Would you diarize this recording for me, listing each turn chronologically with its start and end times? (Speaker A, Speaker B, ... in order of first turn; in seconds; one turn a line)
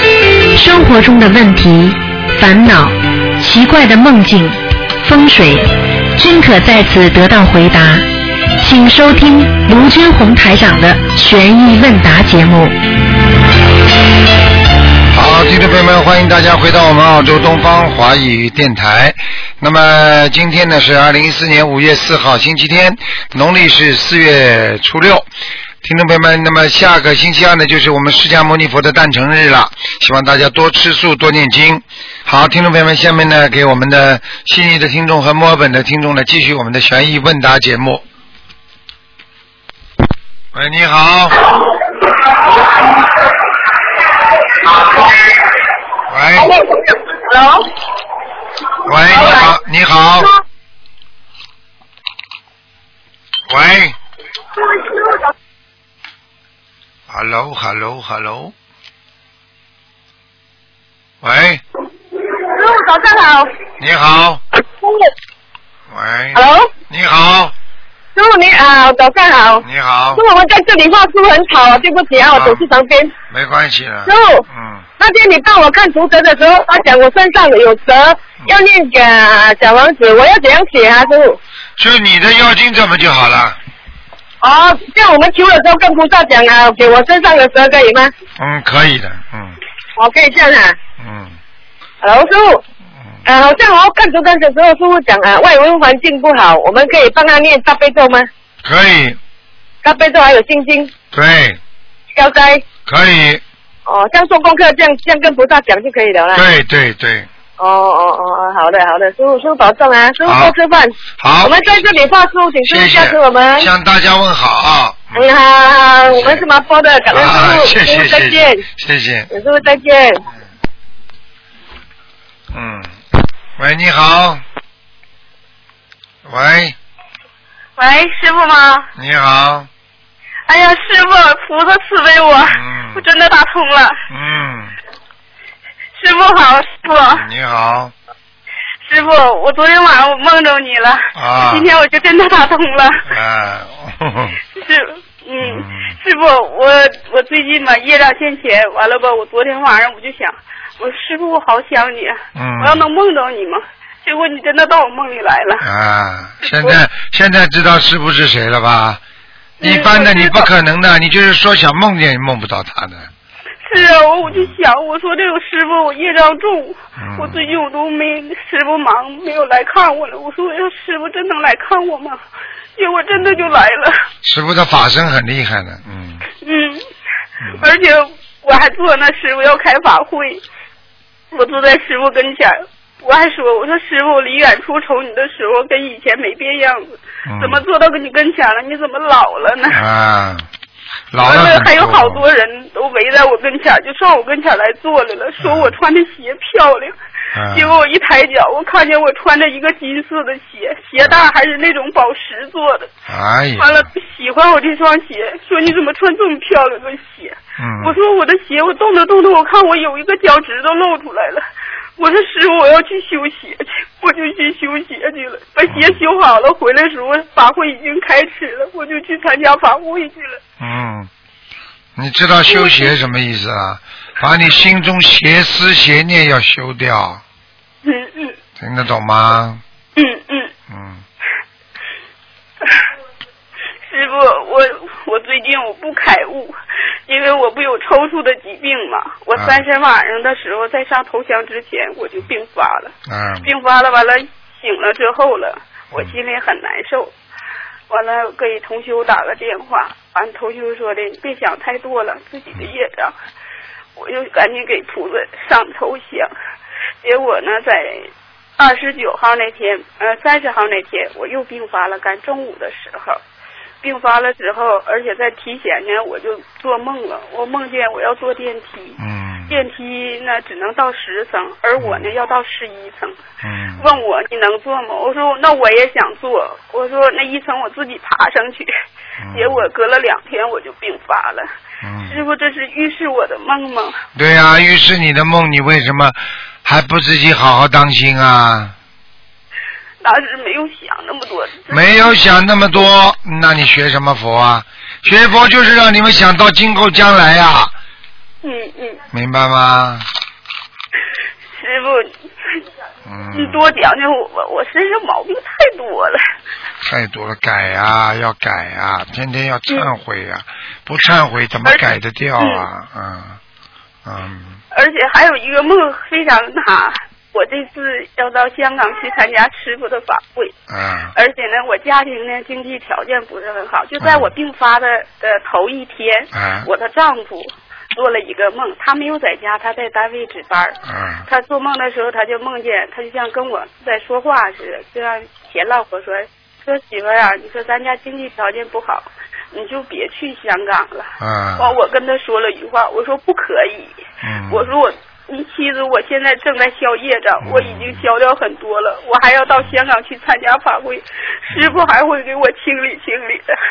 Speaker A: 0.5-8.1
Speaker A: 8.6-12.8
Speaker B: 15.1-25.3
Speaker B: 25.8-38.0
Speaker B: 40.5-41.5
Speaker C: 44.7-45.2
Speaker B: 46.1-46.5
Speaker C: 46.4-47.7
Speaker B: 48.8-50.3
Speaker C: 49.1-49.5
Speaker B: 53.5-54.0
Speaker C: 54.7-55.2
Speaker B: 57.1-58.5
Speaker B: 61.2-61.6
Speaker C: 62.3-63.5
Speaker B: 63.8-64.4
Speaker B: 65.9-67.5
Speaker C: 66.3-66.7
Speaker C: 68.1-73.1
Speaker B: 69.6-70.2
Speaker B: 72.3-72.7
Speaker B: 73.3-74.8
Speaker C: 74.0-74.4
Speaker C: 75.0-81.4
Speaker B: 81.8-83.6
Speaker C: 84.4-88.1
Speaker B: 88.4-89.6
Speaker C: 90.0-90.8
Speaker B: 91.0-91.4
Speaker C: 92.0-92.6
Speaker C: 93.2-98.3
Speaker B: 98.6-99.2
Speaker C: 99.8-100.9
Speaker B: 101.1-101.6
Speaker C: 102.1-102.6
Speaker B: 102.8-103.4
Speaker C: 103.8-106.4
Speaker B: 106.3-107.3
Speaker C: 107.6-113.7
Speaker B: 110.2-110.5
Speaker B: 111.2-111.6
Speaker B: 112.7-115.3
Speaker C: 115.1-118.6
Speaker B: 116.1-116.4
Speaker B: 117.1-119.3
Speaker C: 119.3-120.2
Speaker B: 122.5-123.0
Speaker B: 123.6-124.4
Speaker B: 126.2-126.8
Speaker D: 127.8-128.9
Speaker B: 128.9-129.7
Speaker D: 130.5-134.0
Speaker B: 132.5-133.0
Speaker B: 134.1-134.8
Speaker D: 135.9-137.2
Speaker B: 137.1-137.9
Speaker D: 138.8-143.1
Speaker B: 141.1-141.7
Speaker B: 143.1-144.4
Speaker D: 144.6-155.7
Speaker B: 145.4-145.9
Speaker B: 152.3-152.9
Speaker B: 155.6-159.0
Speaker D: 156.4-156.8
Speaker B: 159.6-163.1
Speaker D: 159.6-160.5
Speaker D: 163.7-172.2
Speaker B: 164.2-164.5
Speaker B: 167.0-167.5
Speaker D: 172.8-173.9
Speaker B: 173.1-173.6
Speaker B: 174.2-176.2
Speaker D: 176.4-176.8
Speaker B: 177.4-177.7
Speaker D: 177.6-180.4
Speaker D: 181.3-189.8
Speaker B: 187.2-187.6
Speaker B: 189.7-190.4
Speaker B: 191.1-192.2
Speaker D: 191.2-196.9
Speaker B: 195.4-195.7
Speaker B: 197.3-197.8
Speaker D: 197.5-202.9
Speaker B: 203.1-203.9
Speaker D: 203.6-211.4
Speaker B: 207.6-208.0
Speaker D: 212.0-220.4
Speaker B: 215.7-216.0
Speaker B: 220.6-221.1
Speaker B: 221.9-227.2
Speaker D: 222.5-222.9
Speaker D: 227.8-228.3
Speaker B: 228.6-229.6
Speaker D: 229.9-230.5
Speaker B: 230.7-231.0
Speaker D: 233.9-242.9
Speaker B: 239.3-239.6
Speaker B: 243.1-243.5
Speaker D: 243.4-247.1
Speaker D: 247.9-253.1
Speaker D: 253.9-256.3
Speaker D: 257.0-263.2
Speaker D: 263.8-269.0
Speaker B: 269.0-269.6
Speaker D: 269.5-273.2
Speaker B: 271.8-272.1
Speaker B: 273.4-273.9
Speaker D: 273.8-278.7
Speaker B: 279.2-279.6
Speaker D: 279.3-281.5
Speaker B: 281.8-282.2
Speaker D: 282.1-284.0
Speaker B: 284.1-288.7
Speaker D: 290.0-291.9
Speaker B: 291.7-297.7
Speaker D: 298.4-299.0
Speaker B: 299.1-300.0
Speaker D: 301.6-302.1
Speaker B: 303.1-303.7
Speaker D: 303.3-306.2
Speaker B: 306.8-313.4
Speaker D: 312.4-312.6
Speaker B: 314.0-314.6
Speaker D: 314.7-320.5
Speaker B: 320.7-321.1
Speaker D: 321.1-343.9
Speaker B: 324.0-324.3
Speaker B: 326.3-326.7
Speaker B: 330.9-331.2
Speaker B: 341.2-341.7
Speaker B: 344.2-344.7
Speaker D: 344.5-353.5
Speaker B: 347.4-348.0
Speaker B: 351.5-351.9